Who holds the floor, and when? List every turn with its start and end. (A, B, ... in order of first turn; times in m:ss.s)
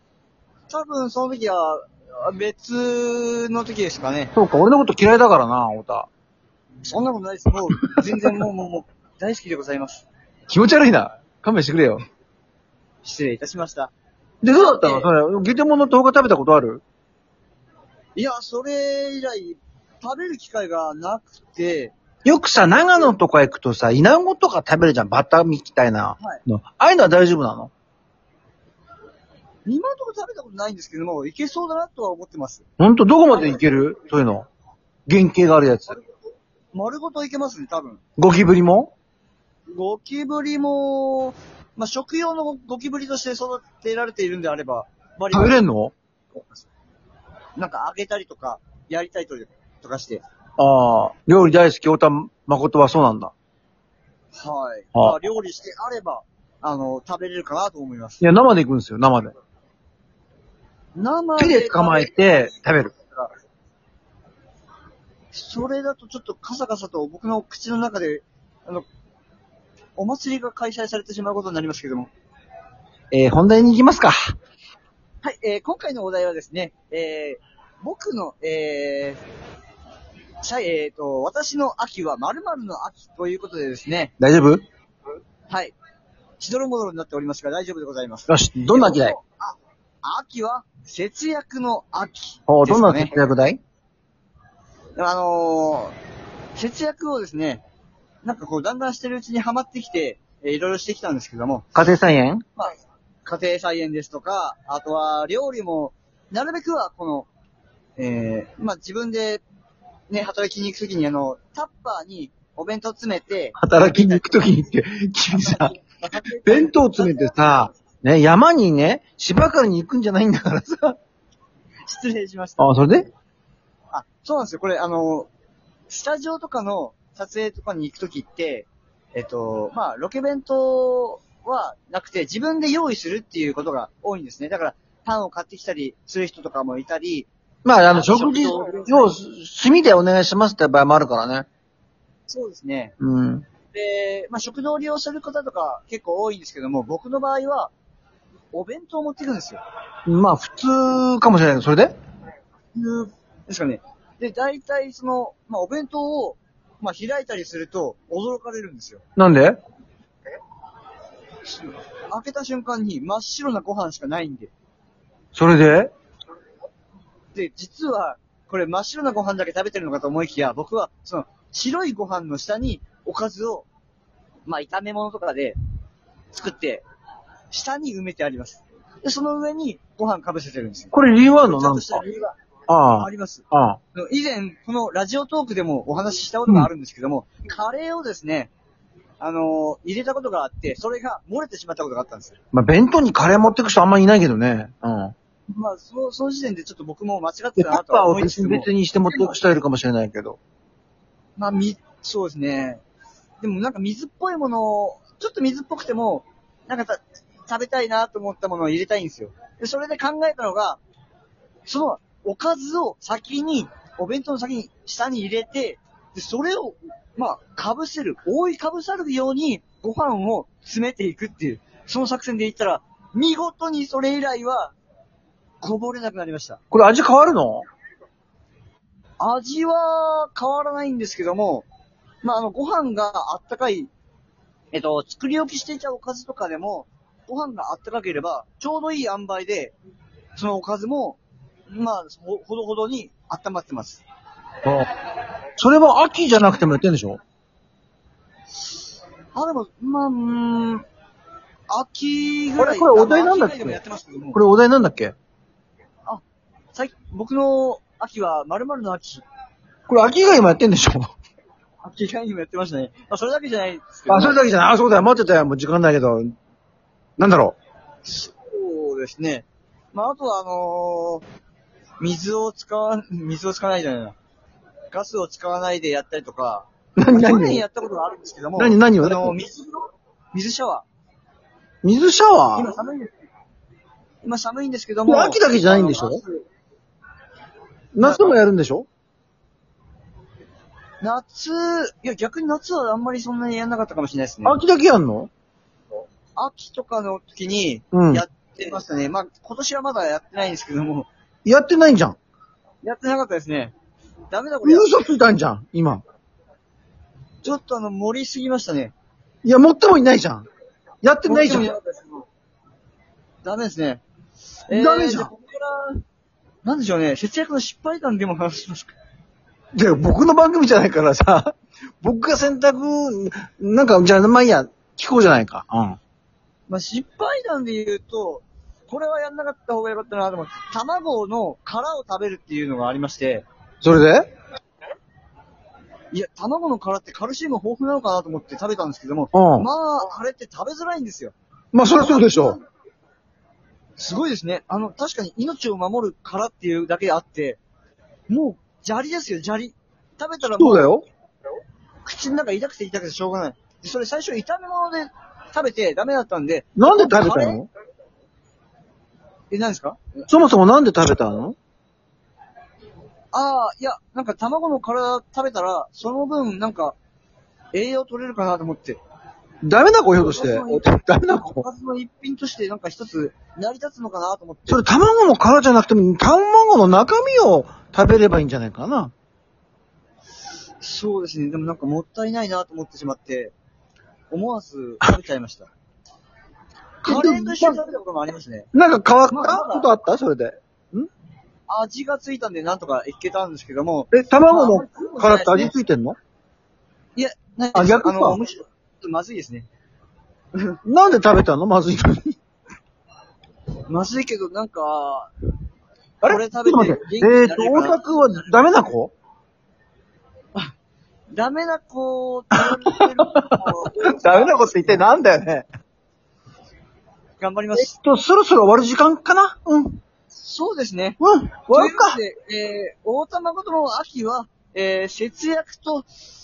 0:00.7-0:04.3 A
0:04.3-0:06.1 B
0:06.8-0:10.0 A
0:10.5-0:12.0 B
0:13.0-0:13.9 A
0:14.4-0:16.8 B
0:14.5-0:15.1 A
0:18.2-0:21.9 A
0:22.2-0:27.7 B
0:22.6-0:23.1 A
0:29.6-0:32.6 A
0:32.8-0:34.5 B
0:33.3-0:33.6 A
0:35.1-0:36.0 B
0:36.7-0:38.0 A
0:38.2-0:38.9 B
0:39.7-0:45.6 A
0:45.3-0:45.9 B
0:47.6-0:50.2 A
0:50.6-0:53.3 B
0:54.3-0:58.2 A
0:58.2-0:59.3 B
1:00.9-1:03.3 A
1:01.4-1:02.9 B
1:05.3-1:08.8 A
1:10.0-1:12.1 A
1:13.1-1:14.2 B
1:15.2-1:19.2 A
1:20.4-1:24.1 A
1:24.2-1:24.6 B
1:25.5-1:25.7 A
1:26.4-1:33.2 A
1:28.3-1:29.2 B
1:32.5-1:33.6 B
1:35.0-1:35.9 A
1:36.6-1:37.6 A
1:38.2-1:41.7 A
1:41.7-1:42.4 B
1:43.2-1:47.3 A
1:48.0-1:49.4 A
1:50.1-1:54.3 A
1:53.6-1:55.7 B
1:55.3-1:57.7 A
1:56.4-2:01.0 B
2:01.9-2:02.6 A
2:02.6-2:03.1 B
2:03.9-2:05.3 A
2:05.9-2:17.3 A
2:17.6-2:21.4 B
2:17.9-2:19.1 A
2:22.3-2:22.9 A
2:23.0-2:23.4 B
2:23.7-2:27.7 A
2:28.5-2:29.6 A
2:30.1-2:32.0 B
2:32.7-2:39.0 A
2:39.2-2:39.6 B
2:41.5-2:44.5 A
2:45.3-2:45.9 B
2:47.3-2:53.7 A
2:54.5-2:55.6 A
2:56.3-2:56.8 A
2:57.5-3:02.4 A
3:00.9-3:02.0 B
3:02.7-3:03.8 B
3:02.9-3:08.5 A
3:09.2-3:12.4 A
3:12.5-3:15.1 B
3:15.5-3:19.3 A
3:17.6-3:20.4 B
3:21.4-3:22.8 A
3:23.4-3:30.8 A
3:31.6-3:44.7 A
3:45.6-3:46.6 A
3:46.7-3:47.6 B
3:49.2-3:51.7 A
3:52.2-3:53.9 A
3:54.7-3:59.7 A
4:00.4-4:01.2 A
4:01.7-4:04.0 A
4:05.6-4:07.2 B
4:09.3-4:10.8 A
4:11.7-4:14.4 A
4:12.6-4:13.8 B
4:14.3-4:15.1 B
4:16.7-4:19.2 A
4:19.9-4:21.1 B
4:21.8-4:24.4 A
4:24.1-4:26.3 B
4:27.2-4:27.6 B
4:28.0-4:31.2 A
4:32.0-4:34.2 A
4:34.9-4:40.8 A
4:37.0-4:37.6 B
4:38.6-4:39.3 B
4:41.8-4:42.7 B
4:42.5-4:43.1 A
4:44.2-4:46.4 A
4:45.1-4:46.2 B
4:47.9-4:48.9 B
4:48.0-4:48.4 A
4:51.0-4:54.6 A
4:54.4-4:55.3 B
4:56.4-5:01.1 A
4:57.9-4:58.2 B
5:01.4-5:02.2 B
5:02.8-5:03.7 A
5:04.3-5:04.9 A
5:04.6-5:06.0 B
5:07.4-5:08.9 A
5:09.4-5:10.5 B
5:11.0-5:11.7 B
5:11.2-5:12.2 A
5:13.4-5:14.0 A
5:14.7-5:16.0 A
5:14.7-5:15.3 B
5:16.6-5:18.9 A
5:19.7-5:21.5 B
5:22.0-5:26.0 B
5:26.7-5:33.4 A
5:33.8-5:34.3 B
5:36.1-5:41.3 A
5:39.3-5:39.7 B
5:41.7-5:42.6 B
5:41.9-5:42.6 A
5:44.0-5:47.6 A
5:48.3-5:50.9 A
5:50.6-5:51.0 B
5:52.0-5:57.6 A
5:56.8-5:57.7 B
5:59.5-6:00.3 A
6:00.3-6:01.6 B
6:03.3-6:06.9 A
6:07.7-6:09.0 A
6:09.6-6:11.6 B
6:10.2-6:14.8 A
6:14.7-6:19.1 B
6:20.8-6:23.5 A
6:24.3-6:25.7 A
6:27.0-6:27.8 B
6:27.0-6:28.7 A
6:28.7-6:31.1 B
6:29.3-6:29.9 A
6:31.7-6:35.7 A
6:34.1-6:36.2 B
6:37.2-6:39.7 A
6:37.7-6:38.4 B
6:40.8-6:42.3 B
6:43.9-6:45.3 A
6:46.2-6:49.1 B
6:46.2-6:48.0 A
6:51.3-6:54.9 A
6:52.6-6:55.6 B
6:57.4-6:57.9 A
6:57.7-7:00.0 B
7:00.4-7:01.2 A
7:01.2-7:02.2 B
7:01.7-7:06.1 A